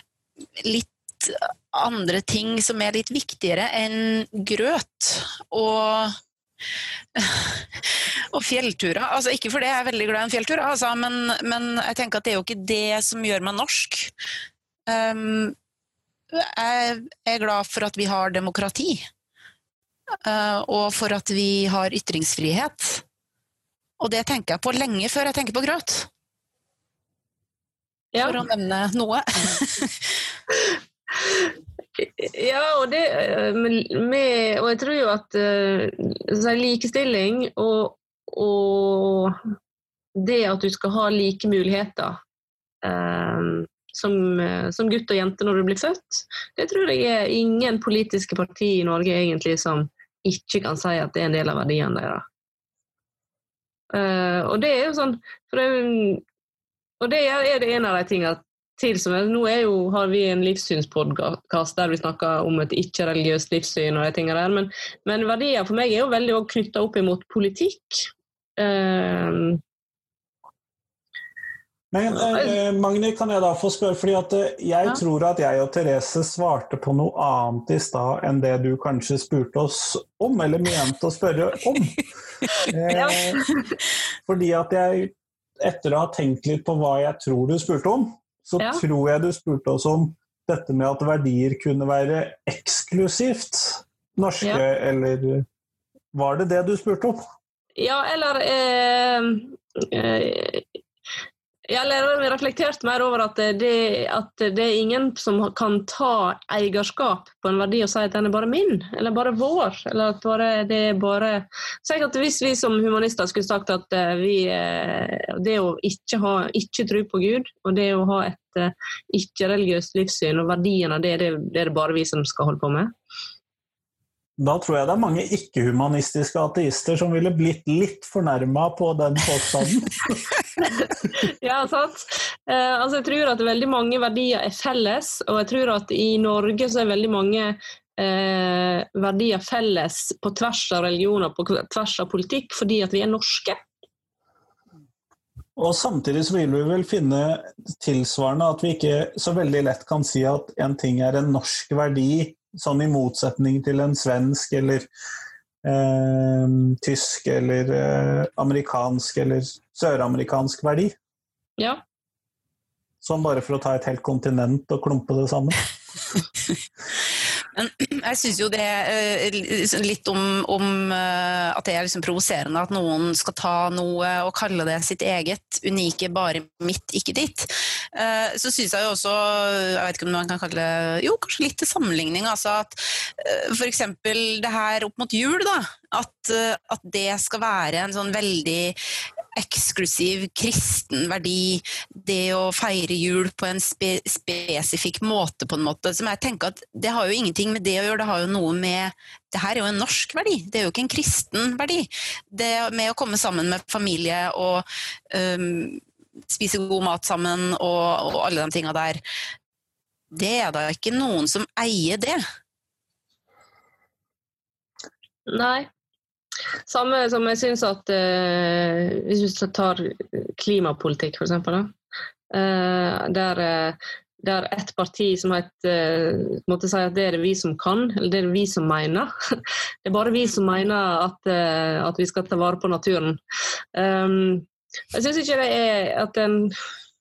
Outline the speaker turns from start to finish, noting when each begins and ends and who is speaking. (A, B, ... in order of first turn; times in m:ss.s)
0:00.6-0:06.2 A
0:07.1-0:14.1 A
0:14.9-0:15.5 A
0:16.3-0:19.1 A
0:20.2-0:23.0 A
0:24.0-0:26.1 A
0:28.2-0:30.1 A
0:31.2-0:39.4 B
0:40.2-0:42.2 B
0:42.8-0:52.2 B
0:53.9-0:56.2 B
0:57.0-1:09.6 B
1:11.9-1:22.0 C
1:22.7-1:23.4 C
1:22.9-1:23.6 B
1:24.3-1:35.4 C
1:36.1-1:37.2 C
1:37.8-1:40.6 B
1:41.7-2:02.9 B
2:04.4-2:10.1 C
2:10.6-2:23.6 B
2:25.6-2:34.9 C
2:35.6-2:40.9 C
2:43.0-2:45.6 C
2:47.5-3:08.8 A
3:09.3-3:29.0 A
3:30.1-3:32.2 A
3:35.3-3:35.7 B
3:36.7-3:41.7 B
3:42.3-3:53.2 B
3:53.7-3:56.5 B